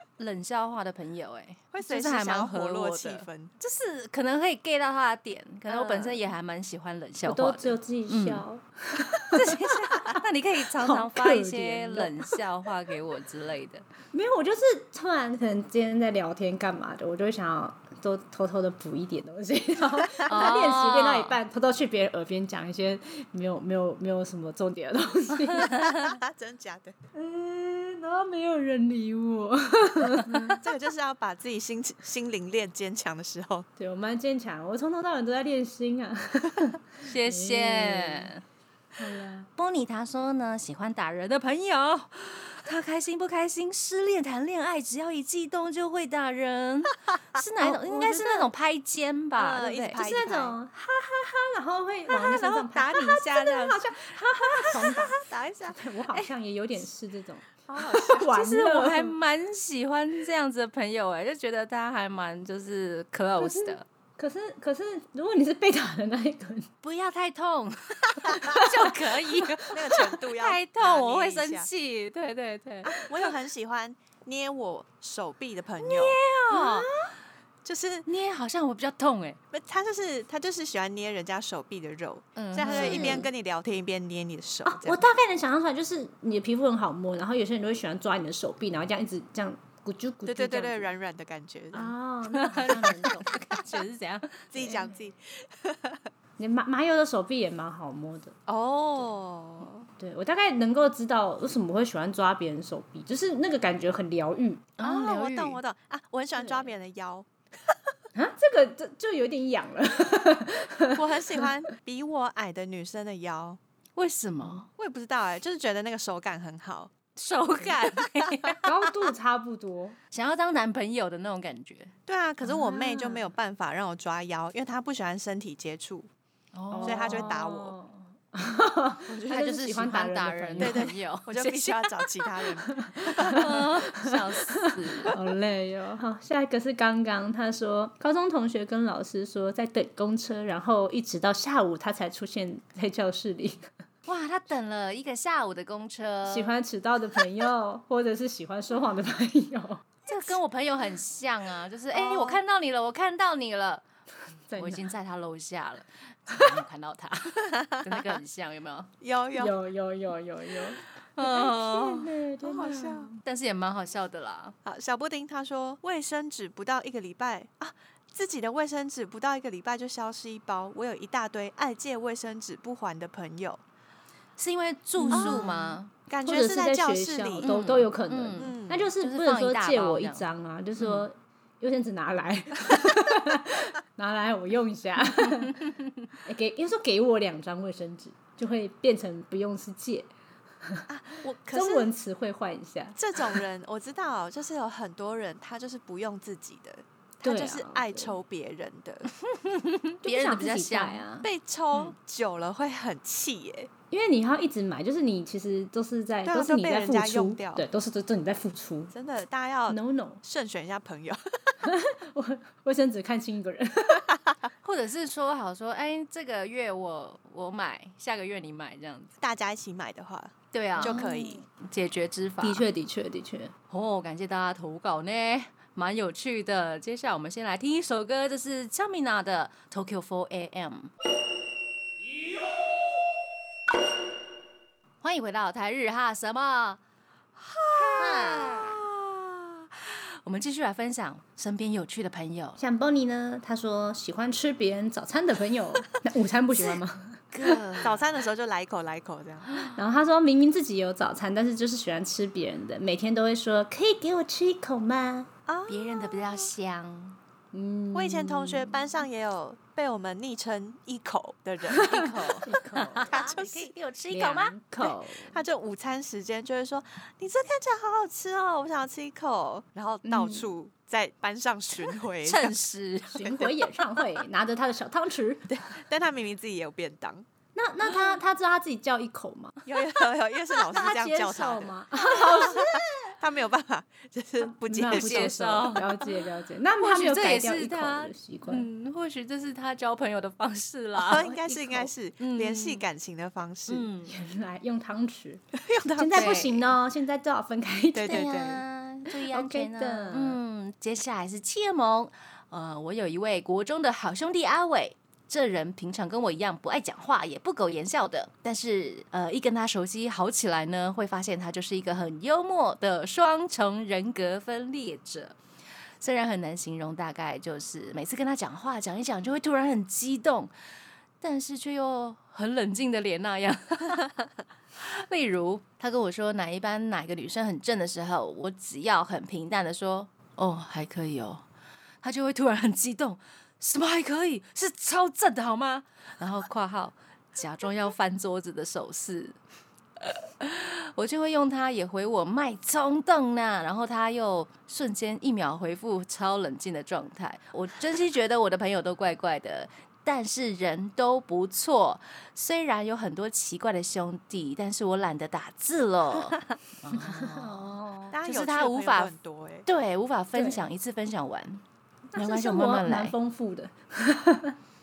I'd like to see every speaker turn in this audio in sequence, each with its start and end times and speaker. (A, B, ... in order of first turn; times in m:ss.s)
0:00.2-0:08.4 A
0:01.7-0:03.6 B
0:05.7-0:06.2 B
0:07.3-0:10.2 C
0:09.3-0:13.8 A
0:10.8-0:12.4 C
0:14.1-0:25.8 C
0:20.2-0:20.5 B
0:20.3-0:21.4 A
0:25.6-0:26.1 A
0:25.8-0:27.0 B
0:27.1-0:30.6 C
0:30.3-0:30.6 A
0:30.6-0:33.7 B
0:33.8-0:38.3 C
0:37.0-0:38.4 A
0:39.0-0:39.5 C
0:39.6-0:50.0 A
0:47.6-0:48.5 C
0:49.4-0:50.6 B
0:50.0-0:59.2 C
0:52.2-0:53.8 A
0:54.8-0:55.8 B
0:57.7-0:58.3 B
0:58.2-1:03.8 A
1:03.4-1:06.7 C
1:06.8-1:13.3 A
1:08.4-1:09.5 C
1:09.7-1:11.7 B
1:12.8-1:16.2 B
1:15.8-1:16.9 A
1:16.5-1:17.2 C
1:17.6-1:18.1 B
1:18.1-1:19.4 A
1:19.5-1:25.0 B
1:22.4-1:23.3 A
1:22.6-1:23.3 C
1:24.6-1:30.9 C
1:30.3-1:32.0 B
1:31.7-1:33.8 C
1:32.3-1:34.5 A
1:34.5-1:36.0 B
1:34.6-1:34.9 C
1:36.4-1:38.3 C
1:38.5-1:39.9 B
1:40.0-1:44.7 C
1:44.8-1:45.6 A
1:44.8-1:47.7 B
1:46.4-1:46.7 C
1:48.2-1:51.5 C
1:50.9-1:53.6 B
1:54.0-1:54.7 A
1:54.8-1:56.9 B
1:57.2-1:58.7 A
1:58.2-1:58.5 B
1:58.6-2:00.0 C
2:00.1-2:01.9 A
2:02.1-2:06.1 B
2:02.4-2:03.3 C
2:06.6-2:07.4 A
2:06.7-2:10.8 C
2:06.8-2:07.7 B
2:09.1-2:09.7 B
2:09.3-2:12.1 A
2:10.6-2:14.2 B
2:12.8-2:13.7 C
2:13.2-2:15.2 A
2:15.1-2:23.7 C
2:24.1-2:26.6 A
2:26.3-2:29.9 C
2:30.1-2:33.8 A
2:31.9-2:32.4 B
2:34.5-2:34.9 C
2:34.6-2:38.9 A
2:37.6-2:38.2 B
2:39.0-2:39.6 B
2:39.4-2:43.1 C
2:41.2-2:42.1 A
2:42.4-2:43.1 B
2:43.2-2:44.6 A
2:44.6-2:53.6 B
2:54.4-2:55.9 A
2:55.0-3:05.6 C
2:55.1-2:55.5 B
2:56.1-2:57.6 B
2:57.4-3:00.2 A
2:58.4-2:58.9 B
3:00.8-3:01.0 A
3:05.2-3:06.1 A
3:06.2-3:10.1 C
3:10.9-3:11.9 B
3:11.5-3:13.4 C
3:13.0-3:19.1 B
3:17.2-3:18.2 C
3:19.2-3:21.0 A
3:20.0-3:21.3 C
3:21.2-3:23.7 B
3:23.9-3:28.9 C
3:26.2-3:27.6 B
3:28.9-3:31.7 B
3:29.7-3:30.2 C
3:31.6-3:34.1 C
3:34.6-3:39.1 A
3:39.2-3:41.4 B
3:40.5-3:42.6 A
3:40.8-3:41.4 C
3:42.4-3:43.5 C
3:43.7-3:50.9 A
3:55.0-3:56.8 A
3:57.4-4:02.6 A
3:58.0-3:58.7 B
4:02.6-4:07.2 C
4:07.3-4:08.0 A
4:07.8-4:09.6 B
4:09.5-4:09.8 A
4:09.7-4:15.3 C
4:15.5-4:16.5 B
4:15.7-4:17.2 A
4:17.5-4:18.8 C
4:17.9-4:22.0 B
4:21.7-4:24.6 A
4:21.7-4:23.2 C
4:23.0-4:23.7 B
4:24.1-4:25.4 C
4:25.3-4:32.6 B
4:30.0-4:30.5 C
4:32.2-4:33.4 A
4:33.1-4:35.5 C
4:33.2-4:33.6 B
4:35.5-4:37.2 B
4:37.6-4:39.8 C
4:39.7-4:45.9 B
4:40.6-4:42.9 C
4:44.5-4:48.7 C
4:44.9-4:45.8 A
4:46.8-4:52.8 A
4:51.0-4:53.9 B
4:53.7-4:54.2 A
4:54.1-4:55.4 C
4:55.6-4:56.4 B
4:56.0-4:58.3 C
4:56.1-4:56.6 A
4:57.9-4:58.6 B
4:58.1-5:15.4 A
4:59.2-5:00.4 C
5:16.0-5:20.5 A
5:21.2-5:24.1 A
5:24.8-5:31.4 A
5:32.0-5:39.4 A
5:40.0-5:59.2 A
5:56.9-5:58.1 C
5:58.1-5:59.7 B
5:59.7-6:01.6 A
6:00.4-6:00.6 C
6:02.1-6:04.6 C
6:02.2-6:03.2 A